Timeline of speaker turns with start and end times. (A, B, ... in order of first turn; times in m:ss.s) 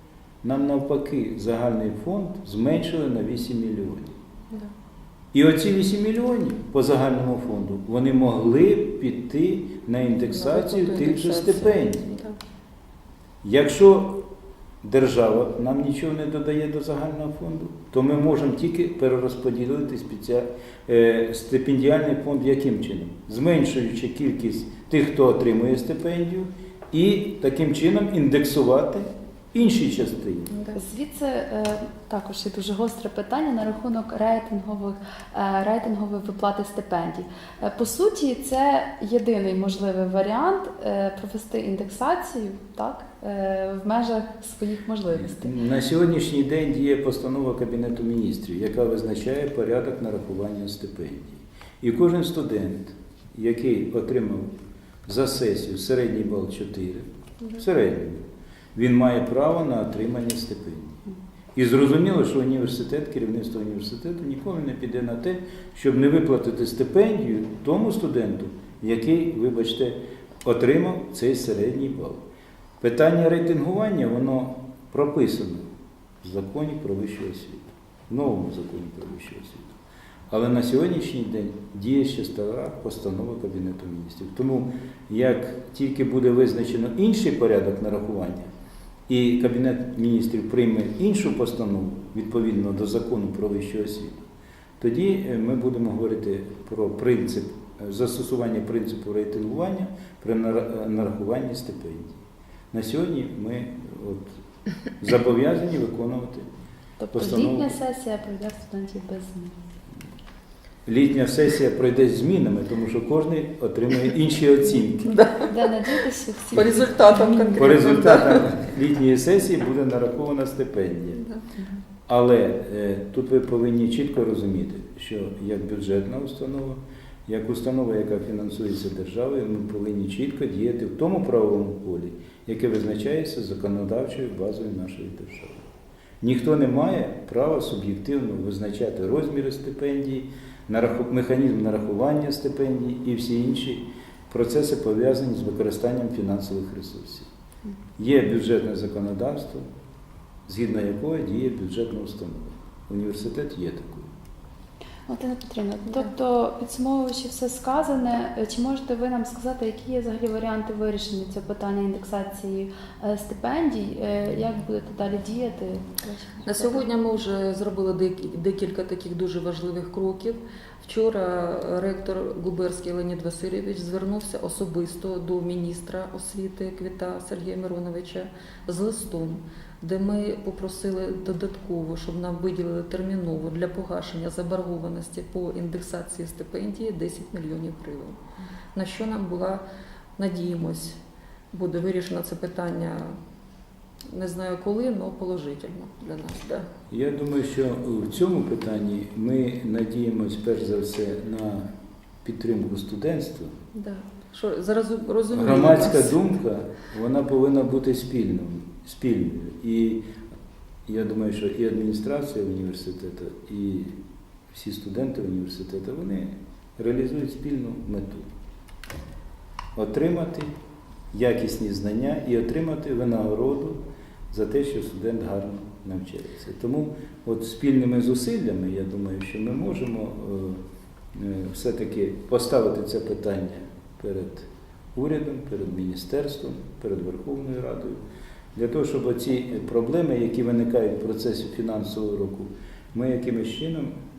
0:00.4-0:04.2 A
0:05.3-0:12.0 A
0:10.3-0:12.4 B
0:13.4-0:14.2 A
0:14.8-0:30.5 A
0:30.5-0:30.8 B
0:30.7-0:45.5 C
0:45.1-0:54.5 A
0:55.0-0:58.2 A
0:58.7-1:01.0 A
1:01.5-1:12.2 A
1:12.8-1:15.6 A
1:16.2-1:19.8 A
1:20.3-1:28.5 A
1:29.1-1:34.2 A
1:34.8-1:42.2 A
1:42.7-1:44.3 A
1:45.0-1:46.5 A
1:47.0-1:49.6 C
1:47.1-1:47.7 A
1:50.9-1:55.1 A
1:55.1-1:55.7 B
1:55.4-1:57.6 C
1:56.5-1:58.5 B
1:57.6-2:01.2 A
2:02.1-2:15.6 A
2:16.2-2:27.3 A
2:28.0-2:29.7 A
2:30.5-2:34.1 A
2:35.1-2:46.8 C
2:46.4-3:08.2 B
3:08.7-3:09.6 B
3:10.2-3:11.0 B
3:11.5-3:13.2 B
3:14.0-3:16.7 B
3:16.9-3:21.7 A
3:22.2-3:23.6 A
3:23.7-3:26.2 B
3:25.3-3:30.1 A
3:30.9-3:34.0 A
3:34.5-3:38.3 A
3:39.8-3:40.5 A
3:41.1-3:43.8 A
3:44.3-3:50.6 A
3:51.1-3:58.0 A
3:58.5-4:03.9 A